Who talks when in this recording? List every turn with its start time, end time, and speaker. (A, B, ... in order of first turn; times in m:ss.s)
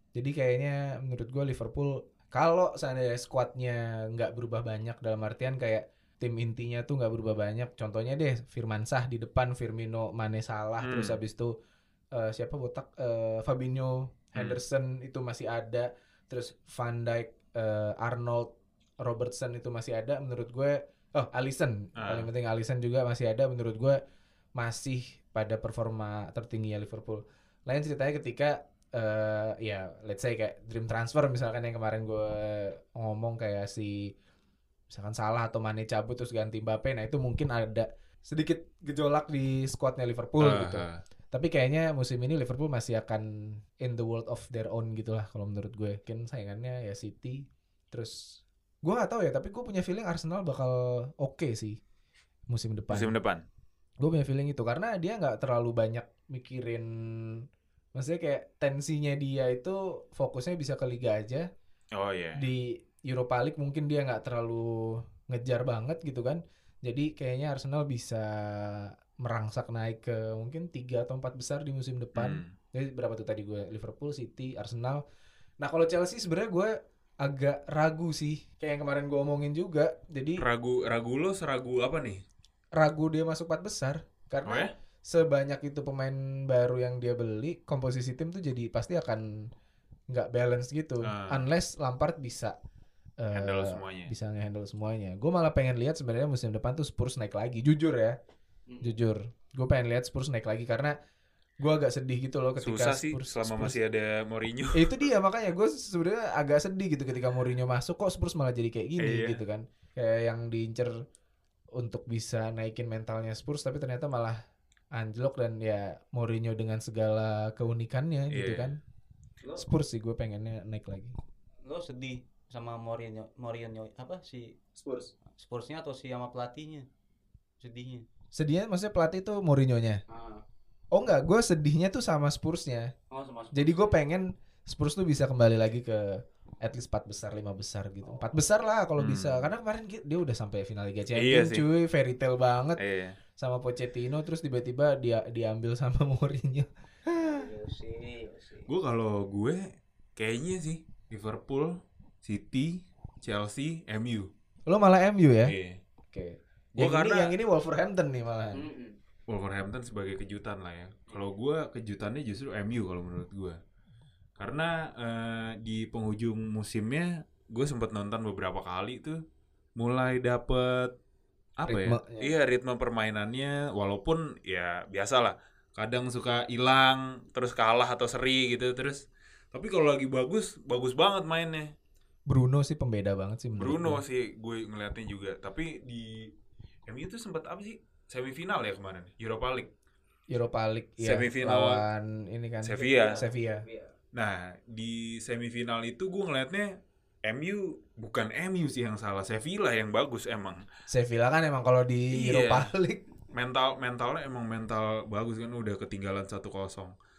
0:00.1-0:11.5 A
0:10.8-0:11.2 B
0:12.1-0:18.5 A
0:19.0-0:24.0 A
0:22.0-0:22.3 B
0:24.6-0:34.1 A
0:34.9-0:51.8 A
0:40.4-0:41.0 B
0:52.5-0:53.1 A
0:52.9-0:53.4 B
0:54.0-0:57.4 A
0:57.9-1:01.5 A
1:01.9-1:02.4 B
1:02.4-1:15.0 A
1:12.1-1:12.5 B
1:15.6-1:20.4 A
1:20.4-1:22.2 B
1:22.8-1:29.2 A
1:24.4-1:24.7 B
1:30.1-1:32.6 A
1:31.0-1:31.4 B
1:33.2-1:38.2 A
1:33.3-1:34.1 B
1:38.7-1:39.0 C
1:38.8-1:40.9 A
1:41.6-1:43.8 A
1:42.6-1:45.0 B
1:44.7-1:50.9 A
1:49.0-1:49.4 B
1:51.8-1:54.4 A
1:54.9-1:58.8 A
1:58.3-1:58.8 B
1:59.6-2:01.1 A
2:01.6-2:04.6 C
2:04.8-2:05.1 A
2:05.4-2:06.9 C
2:07.6-2:08.0 C
2:08.3-2:10.0 A
2:10.1-2:10.4 C
2:10.9-2:12.9 A
2:13.1-2:14.0 C
2:13.5-2:22.8 A
2:18.0-2:18.3 C
2:19.0-2:19.5 B
2:21.1-2:21.6 B
2:22.8-2:23.2 B
2:23.4-2:27.5 A
2:27.2-2:28.7 C
2:28.7-2:29.6 B
2:30.2-2:34.3 B
2:34.6-2:35.6 A
2:35.4-2:35.8 B
2:36.1-2:38.7 A
2:36.8-2:37.4 B
2:38.5-2:39.0 C
2:39.3-2:43.6 B
2:44.4-2:49.2 B
2:49.8-2:50.9 B
2:51.6-3:01.7 B
2:51.6-2:52.3 A
3:02.3-3:04.0 A
3:03.6-3:06.3 B
3:06.9-3:09.7 B
3:10.3-3:13.6 A
3:11.0-3:11.8 B
3:12.6-3:13.2 B
3:12.8-3:13.9 C
3:14.1-3:16.7 B
3:17.2-3:20.6 B
3:20.9-3:23.0 A
3:22.1-3:22.7 B
3:23.3-3:27.0 B